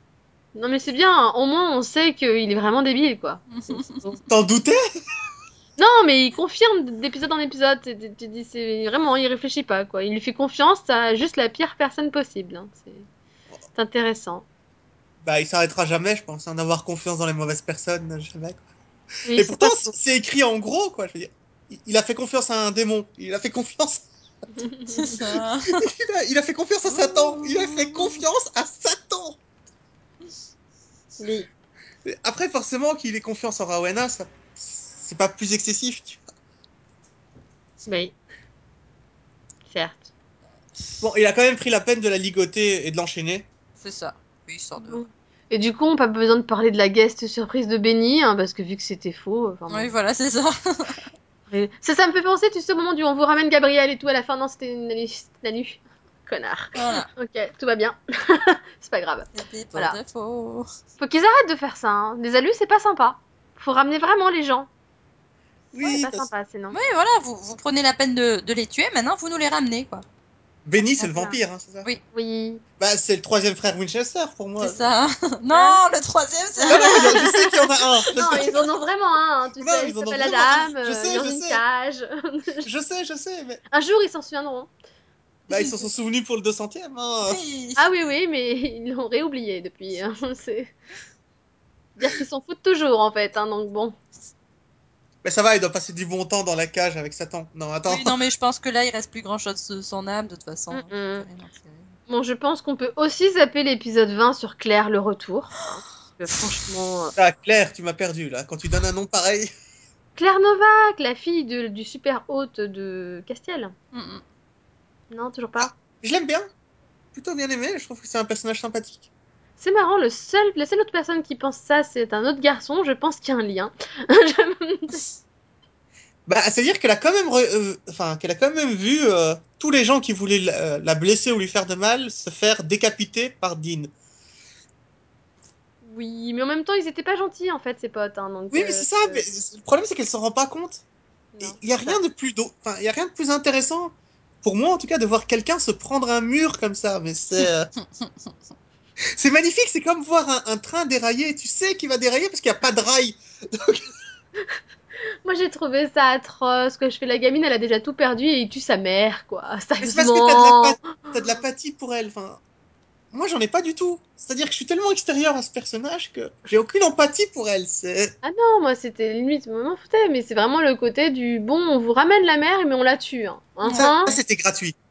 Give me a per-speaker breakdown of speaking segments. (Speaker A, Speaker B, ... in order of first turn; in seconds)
Speaker A: 0.5-4.2, 5.8-13.1, 13.7-14.4, 19.2-19.9, 24.6-25.2, 31.2-31.5, 37.9-38.1, 39.7-40.1, 44.8-49.9, 51.5-60.0, 61.0-64.7, 65.8-66.8, 71.0-71.4, 72.1-72.6, 75.5-75.8, 76.7-77.2, 78.1-82.7, 83.7-84.7, 87.8-90.7, 92.0-93.9, 100.7-101.2, 102.1-107.2, 110.2-113.7, 115.1-115.7, 119.6-125.0, 135.8-139.2, 141.3-142.0, 155.2-161.2, 168.2-174.2
Speaker B: 3.5-4.1, 24.9-25.9, 26.9-28.1, 43.8-45.0, 49.7-51.0, 56.7-57.1, 59.3-60.7, 66.7-70.0, 74.6-77.6, 78.2-78.5, 87.2-88.0, 97.9-101.9, 113.9-114.2, 148.0-148.3, 173.6-173.9
Speaker C: 4.3-4.8, 15.2-18.6, 19.3-24.1, 25.8-29.4, 32.0-36.3, 41.0-43.5, 65.7-66.3, 70.7-71.8, 72.8-74.8, 76.6-78.6, 79.6-81.6, 82.6-83.6, 85.5-87.4, 95.2-98.2, 107.2-109.5, 115.6-116.5, 117.1-119.1, 126.2-133.9, 138.5-140.8, 141.4-147.7, 149.2-153.9, 159.8-162.4, 163.1-168.1, 173.7-174.8